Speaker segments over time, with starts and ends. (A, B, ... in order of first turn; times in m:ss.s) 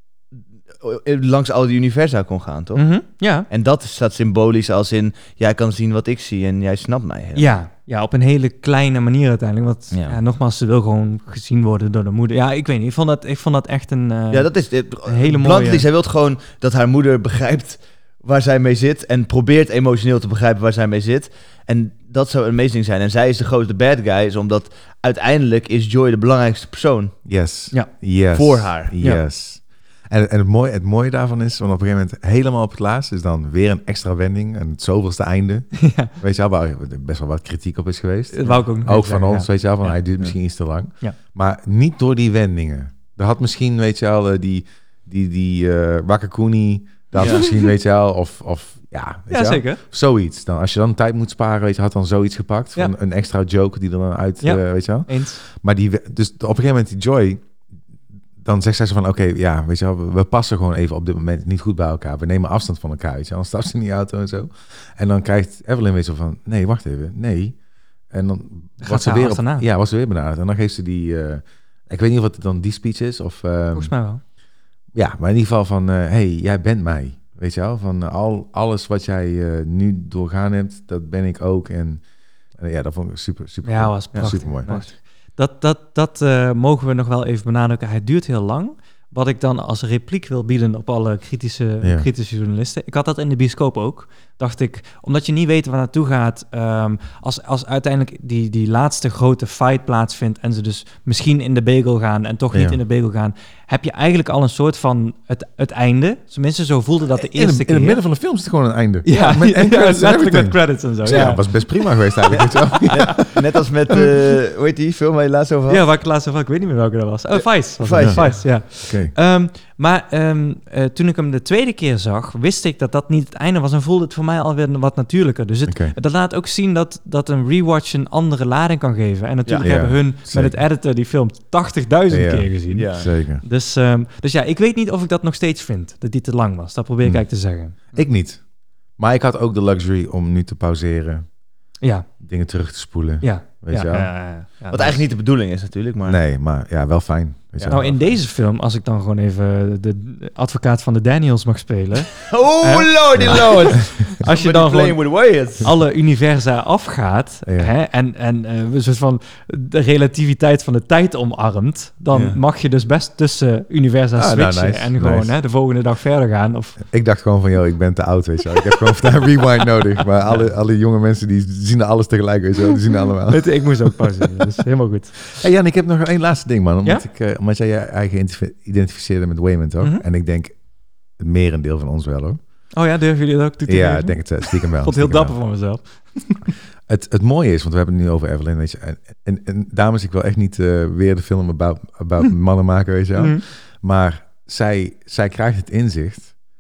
0:00.8-0:07.5 A
0:02.8-0:03.5 B
0:07.4-0:15.8 B
0:09.9-0:10.2 A
0:14.3-0:27.2 A
0:27.2-0:57.4 C
0:28.3-0:29.0 A
0:35.8-0:36.1 B
0:38.3-0:39.5 B
0:47.2-0:47.4 A
0:49.3-0:49.8 B
0:54.4-0:55.4 B
0:58.4-1:07.6 C
1:08.1-1:13.9 C
1:08.8-1:09.7 B
1:13.7-1:14.2 B
1:14.9-1:22.0 C
1:22.6-1:24.8 C
1:23.6-1:48.0 B
1:24.1-1:24.9 A
1:31.8-1:32.1 C
1:42.5-1:42.8 C
1:47.1-1:53.4 C
1:49.0-1:51.7 B
1:51.1-1:51.4 A
1:52.3-1:55.8 A
1:55.7-2:18.0 B
1:57.3-1:58.5 A
1:58.0-1:59.2 C
2:05.7-2:06.0 C
2:09.5-2:09.7 A
2:09.6-2:10.6 C
2:12.1-2:13.4 C
2:12.7-2:13.1 A
2:17.0-2:17.3 C
2:17.9-2:18.4 C
2:19.0-2:21.3 C
2:21.8-2:22.1 B
2:22.2-2:24.2 C
2:23.2-2:25.0 B
2:24.7-2:26.2 A
2:26.1-2:28.2 C
2:27.6-2:46.8 B
2:32.3-2:35.7 A
2:33.2-2:33.5 C
2:37.5-2:37.7 C
2:42.1-2:42.4 A
2:44.2-2:45.3 C
2:46.9-2:54.5 C
2:53.3-2:55.4 B
2:55.4-3:00.6 C
3:01.1-3:02.4 C
3:02.7-3:06.5 B
3:03.7-3:05.4 C
3:06.9-3:16.3 C
3:13.2-3:13.4 B